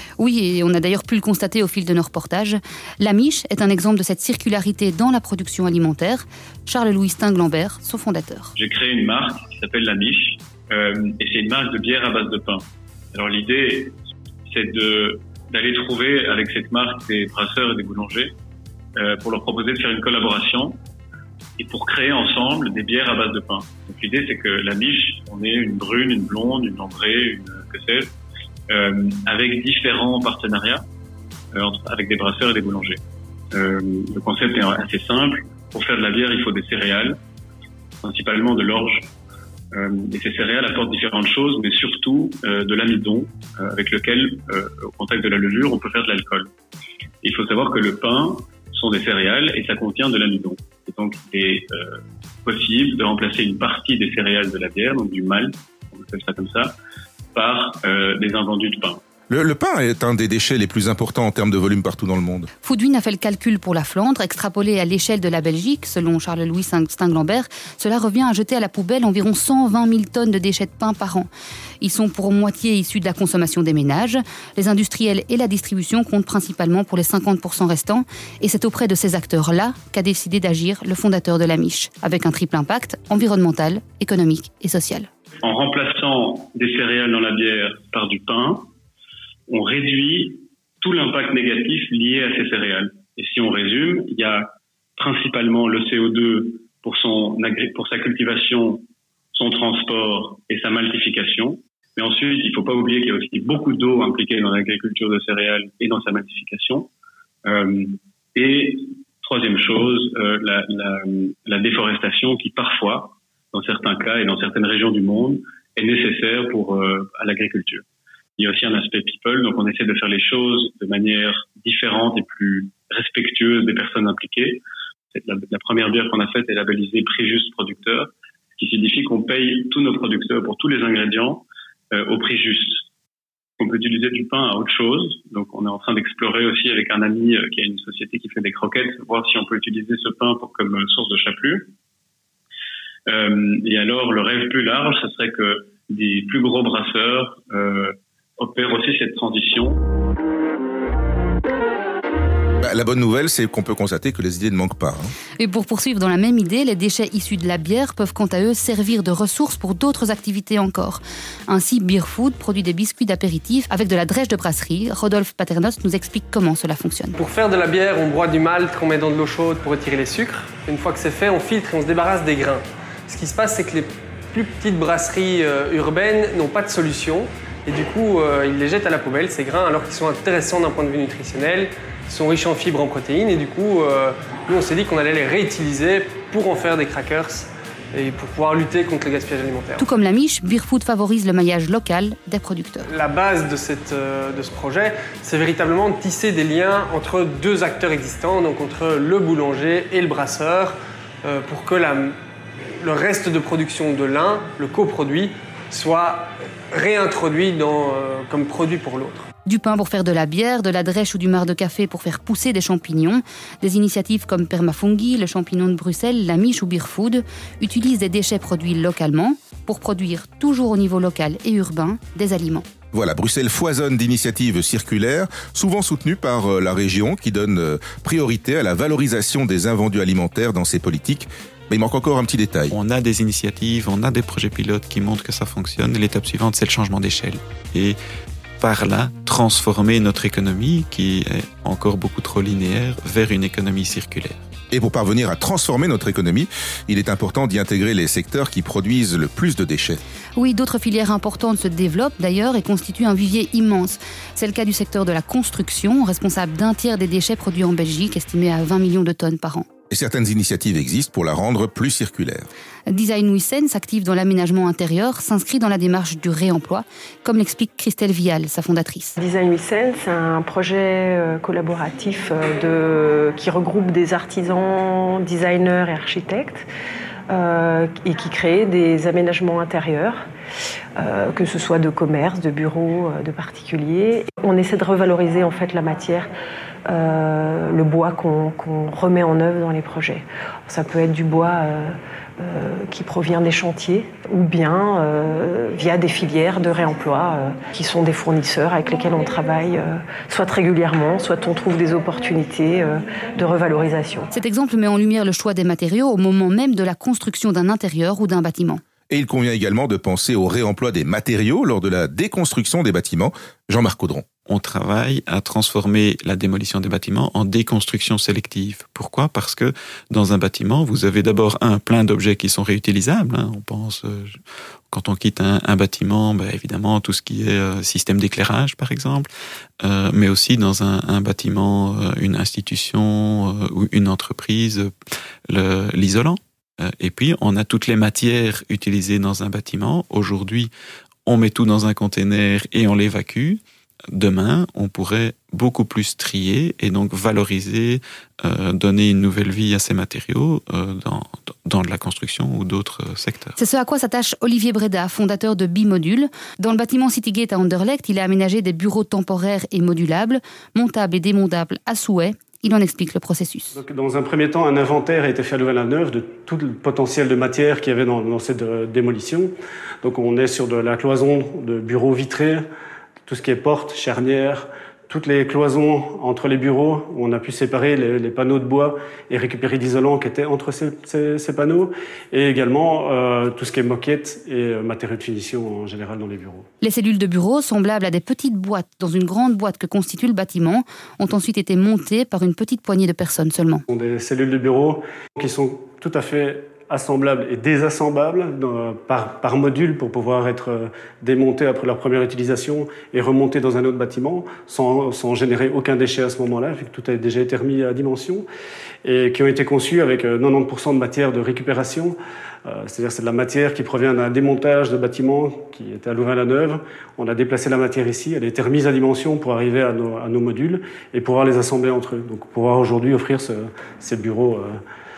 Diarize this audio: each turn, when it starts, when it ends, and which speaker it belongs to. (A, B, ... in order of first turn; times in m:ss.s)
0:00.2-0:08.6 A
0:08.6-0:18.3 B
0:19.0-0:20.8 B
0:21.6-0:28.1 B
0:28.7-0:30.8 B
0:31.5-0:33.0 B
0:33.5-0:37.2 B
0:38.0-0:39.1 B
0:39.7-0:46.5 B
0:47.2-0:56.7 B
0:57.3-0:59.0 B
0:59.3-1:02.5 C
1:02.6-1:11.3 A
1:11.8-1:25.1 A
1:25.4-1:28.7 B
1:29.5-1:46.9 B
1:47.4-1:57.8 B
1:58.4-2:04.6 B
2:05.1-2:12.8 B
2:13.6-2:21.7 B
2:23.1-2:29.8 B
2:32.6-2:35.1 C
2:35.4-2:47.2 A
2:47.2-3:09.8 D
3:09.8-3:12.9 A
3:12.9-3:22.2 D
3:22.8-3:29.3 D
3:29.4-3:42.6 A
3:42.9-3:52.8 C
3:52.7-3:58.0 E
3:58.6-4:04.4 E
4:04.7-4:10.0 C
4:10.4-4:19.7 A
4:19.9-4:22.5 C
4:22.9-4:29.2 A
4:29.2-4:36.7 F
4:37.3-4:40.2 F
4:41.0-4:46.3 F
4:46.9-5:04.3 F
5:04.3-5:08.8 A
5:09.1-5:14.2 C
5:14.5-5:24.4 E
5:24.9-5:29.3 E
5:29.8-5:34.9 E
5:35.5-5:40.7 E
5:41.3-5:43.6 E
5:44.1-5:53.6 E
5:53.6-6:03.8 A
6:03.7-6:09.5 G
6:10.0-6:12.6 G
6:13.3-6:26.7 G
6:26.8-6:33.8 A
6:33.9-6:48.5 G
6:49.0-7:04.8 G